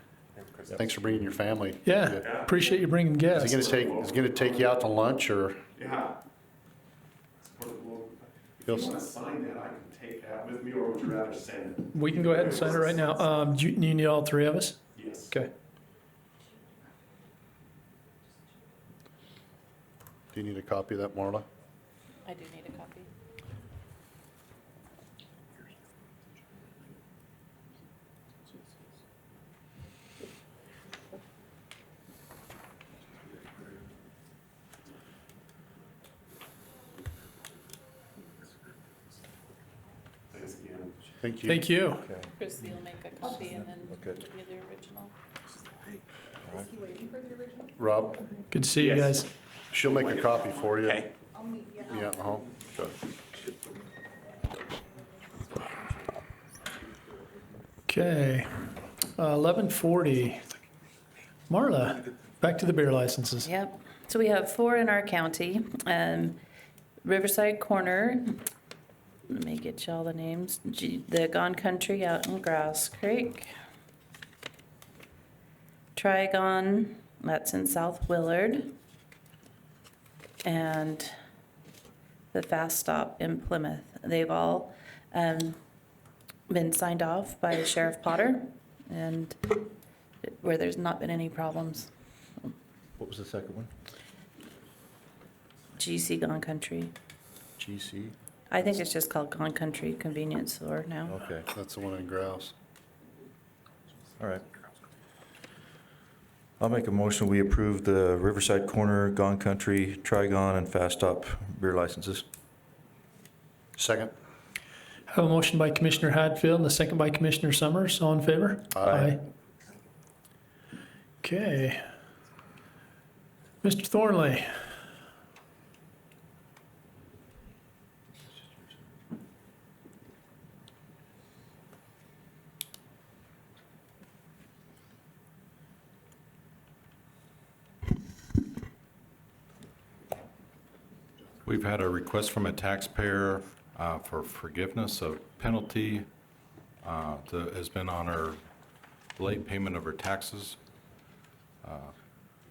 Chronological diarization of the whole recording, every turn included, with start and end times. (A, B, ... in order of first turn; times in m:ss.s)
0:00.3-0:00.8 A
0:00.7-0:02.2 B
0:01.8-0:03.6 C
0:02.2-0:02.6 A
0:03.3-0:05.6 B
0:03.4-0:04.7 A
0:05.8-0:06.2 A
0:07.4-0:13.3 A
0:08.6-0:08.9 B
0:11.9-0:15.5 C
0:14.9-0:15.3 A
0:20.3-0:21.4 B
0:22.2-0:23.1 D
0:40.3-0:41.0 A
0:41.2-0:41.6 B
0:41.4-0:42.0 C
0:42.0-0:42.3 E
0:42.4-0:45.1 D
0:43.9-0:44.2 E
0:46.4-0:46.9 E
0:47.8-0:48.3 B
0:48.5-0:49.3 C
0:48.8-0:51.1 A
0:49.7-0:51.0 B
0:51.8-0:52.5 B
0:57.9-1:00.5 C
1:01.5-1:03.5 C
1:03.4-1:06.4 D
1:07.0-1:08.4 D
1:09.3-1:13.5 D
1:16.0-1:18.7 D
1:20.4-1:21.1 D
1:22.3-1:25.6 D
1:26.5-1:29.7 D
1:30.2-1:31.9 D
1:33.0-1:33.7 E
1:35.8-1:36.9 D
1:37.6-1:38.1 E
1:38.5-1:41.2 D
1:41.1-1:41.4 E
1:41.4-1:42.5 B
1:44.2-1:44.4 E
1:46.6-1:52.2 E
1:53.8-1:54.1 B
1:55.1-1:59.2 C
1:58.7-1:59.0 B
1:58.9-1:59.2 E
2:01.2-2:01.8 C
2:03.6-2:04.5 C
2:21.4-2:26.1 F
2:26.8-2:28.4 F
2:29.2-2:30.6 F
2:31.6-2:31.9 F